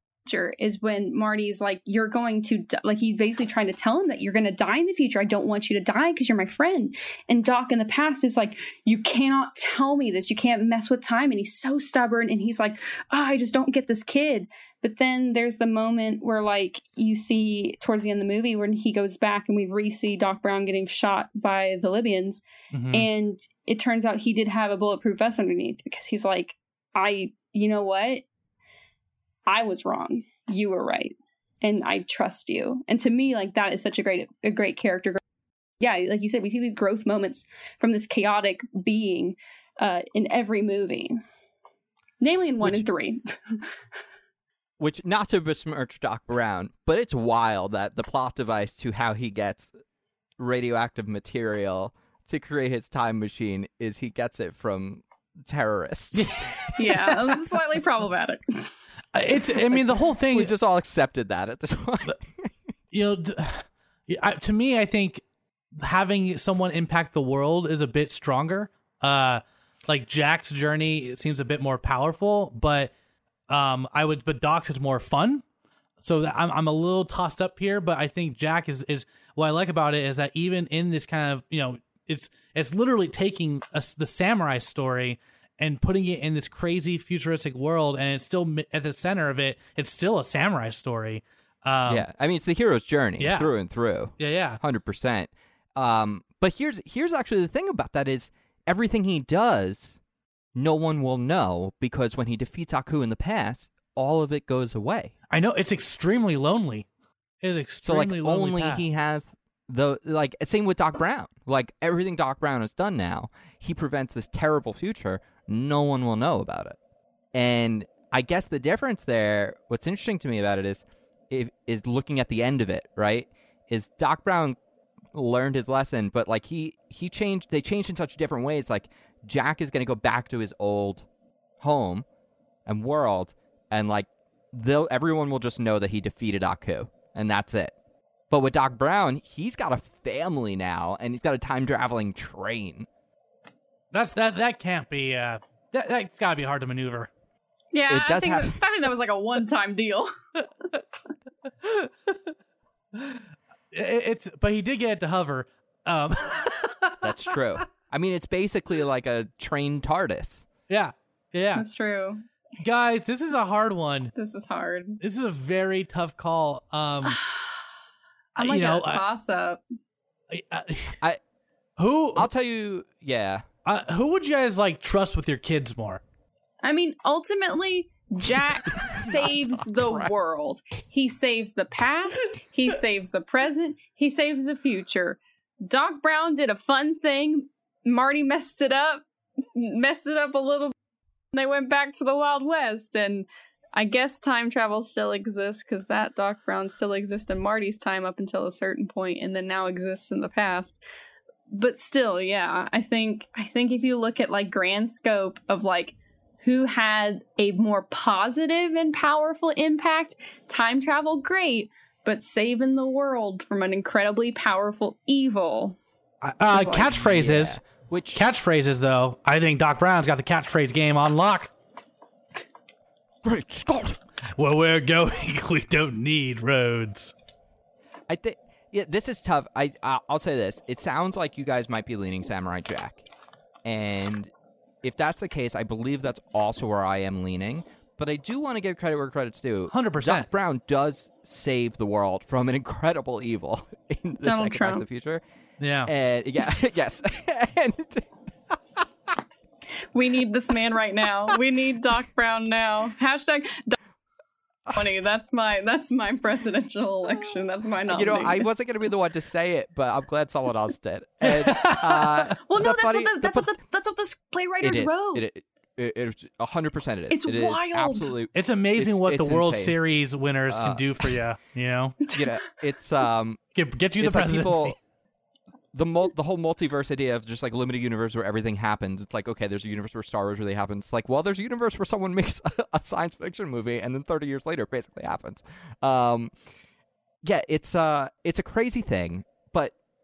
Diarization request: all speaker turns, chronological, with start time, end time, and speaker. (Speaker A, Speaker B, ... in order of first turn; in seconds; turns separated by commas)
Speaker A: 0.3-28.2, Speaker B: 22.7-23.1, Speaker A: 29.5-35.2, Speaker A: 35.8-41.2, Speaker A: 42.2-43.8, Speaker C: 44.8-49.7, Speaker C: 50.4-56.7, Speaker B: 56.1-57.4, Speaker A: 56.8-58.7, Speaker B: 59.1-60.5, Speaker C: 59.7-62.5, Speaker B: 62.9-65.2, Speaker B: 65.8-72.9, Speaker B: 73.5-75.4, Speaker B: 76.0-92.1, Speaker C: 91.9-100.0, Speaker B: 93.2-93.5, Speaker B: 94.2-94.6, Speaker C: 100.5-105.1, Speaker B: 105.3-106.9, Speaker B: 107.4-108.8, Speaker C: 107.8-116.8, Speaker C: 117.3-124.6, Speaker C: 125.1-131.1, Speaker C: 131.6-132.1, Speaker C: 132.7-137.8, Speaker C: 138.3-142.9, Speaker B: 143.9-147.1, Speaker A: 147.7-150.2, Speaker C: 147.9-148.6, Speaker B: 151.6-152.3, Speaker B: 152.9-157.1, Speaker C: 157.0-160.5, Speaker B: 160.7-161.7, Speaker A: 161.6-162.2, Speaker B: 162.6-164.1, Speaker A: 164.2-165.0, Speaker B: 165.0-167.2, Speaker A: 167.1-167.5, Speaker B: 168.4-169.0, Speaker A: 168.4-169.6, Speaker B: 170.3-171.0, Speaker B: 171.8-172.3, Speaker C: 172.2-173.5, Speaker B: 173.7-176.0, Speaker A: 176.6-190.7, Speaker C: 178.7-180.1, Speaker A: 191.3-200.8, Speaker A: 201.5-215.8, Speaker B: 216.2-217.6, Speaker A: 216.5-217.0, Speaker C: 217.0-218.3, Speaker B: 218.2-221.5, Speaker C: 223.2-224.0, Speaker B: 224.4-227.1, Speaker C: 228.1-233.1, Speaker C: 233.7-234.3, Speaker C: 234.8-245.2, Speaker B: 239.7-240.3, Speaker A: 244.2-244.8, Speaker B: 245.6-245.9, Speaker C: 245.9-248.8, Speaker A: 249.9-253.8, Speaker A: 254.7-258.5, Speaker C: 257.9-263.5, Speaker B: 261.2-262.4, Speaker A: 262.4-265.2, Speaker C: 264.6-269.8, Speaker A: 267.1-268.1, Speaker B: 268.3-272.0, Speaker C: 270.5-270.9, Speaker A: 272.1-272.3, Speaker C: 272.1-273.4, Speaker B: 273.5-274.8, Speaker C: 274.0-274.8, Speaker C: 275.7-286.3, Speaker C: 287.2-289.8